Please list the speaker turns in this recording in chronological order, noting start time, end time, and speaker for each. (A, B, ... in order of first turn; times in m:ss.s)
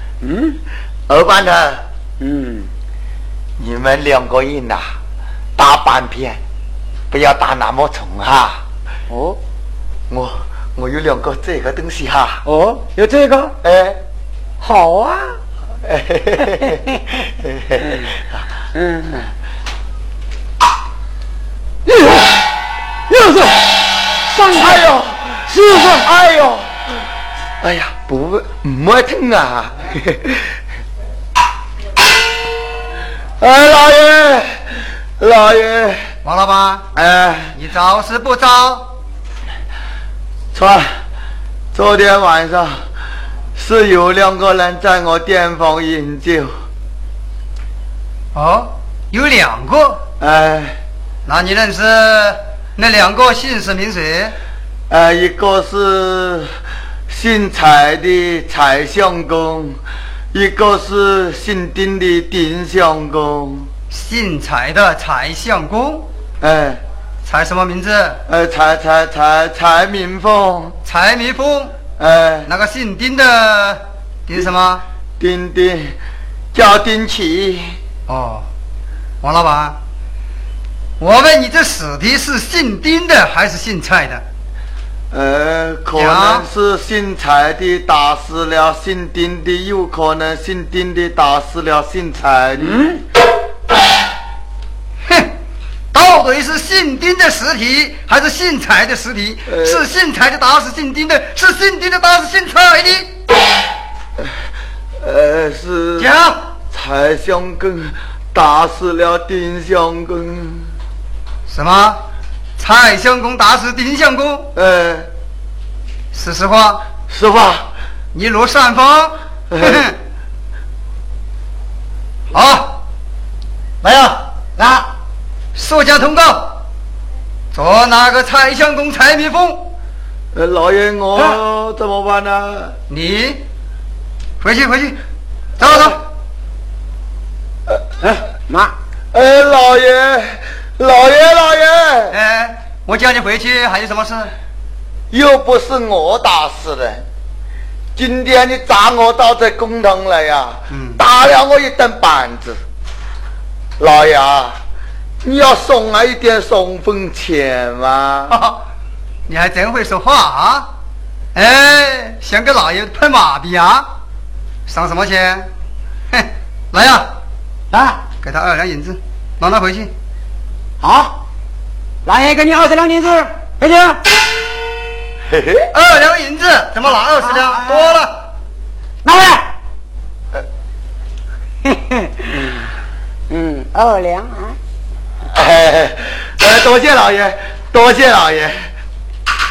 0:00.2-0:00.6 A
0:01.1-0:01.8 B
0:02.2-0:02.7 A
0:03.6-0:04.8 B
0:05.6-0:06.4 B
0:07.1-0:08.6 B
0:09.1-0:09.4 A
0:10.1-0:12.4 B
0:12.4-0:13.5 A
0:13.6-0:14.0 B
0:14.6-0:15.4 A
0:15.8-0:16.8 B
0:17.4-0:18.1 B
0:18.8-0:19.3 A
0:23.1-0:23.5 A
0:24.4-0:26.7 B
0:25.6-0:25.9 A
0:27.6-0:30.6 B
0:33.4-0:34.6 B
0:35.2-0:36.0 B
0:36.2-0:36.8 C
0:37.0-0:37.5 B
0:37.5-0:38.9 C
0:40.5-0:40.9 B
0:41.7-0:42.8 B
0:43.6-0:46.5 B
0:48.4-0:50.0 C
0:50.2-0:50.8 B
0:51.3-0:54.4 C
0:54.9-0:56.5 B
0:57.1-0:59.8 B
1:00.3-1:03.7 B
1:03.9-1:06.1 C
1:06.4-1:06.8 B
1:07.2-1:08.2 C
1:08.3-1:10.8 B
1:10.9-1:11.7 C
1:12.0-1:12.5 B
1:12.5-1:14.8 C
1:15.2-1:16.0 B
1:16.5-1:17.8 B
1:18.1-1:18.5 C
1:19.2-1:19.8 C
1:21.0-1:24.2 C
1:25.1-1:32.9 B
1:26.0-1:26.5 C
1:35.9-1:43.1 C
1:39.5-1:39.8 B
1:45.0-1:46.1 B
1:46.0-1:46.4 C
1:46.7-1:50.7 B
1:51.5-1:52.0 C
1:52.6-1:54.5 C
1:54.6-1:55.1 B
1:56.1-1:56.8 C
1:57.1-1:57.7 B
1:58.1-2:00.0 C
1:59.5-1:59.9 B
2:02.3-2:02.8 C
2:03.8-2:04.2 C
2:04.6-2:04.9 A
2:05.6-2:06.6 C
2:07.5-2:09.7 C
2:10.4-2:12.8 B
2:12.9-2:13.4 C
2:14.4-2:15.0 C
2:15.6-2:16.0 C
2:18.0-2:18.7 A
2:19.1-2:22.2 B
2:22.1-2:24.3 C
2:25.1-2:27.0 B
2:28.0-2:32.6 B
2:30.7-2:31.0 C
2:33.8-2:34.6 B
2:35.2-2:38.3 B
2:38.3-2:38.6 C
2:39.3-2:40.7 C
2:41.4-2:43.9 C
2:44.7-2:45.5 C
2:46.1-2:47.1 C
2:47.7-2:48.0 A
2:48.2-2:49.9 C
2:50.8-2:51.1 A
2:52.0-2:54.0 A
2:55.3-2:55.7 B
2:55.7-2:58.2 C
2:57.2-2:58.0 A
2:59.0-2:59.5 A
3:01.6-3:02.6 A
3:03.3-3:04.6 A
3:05.3-3:08.6 B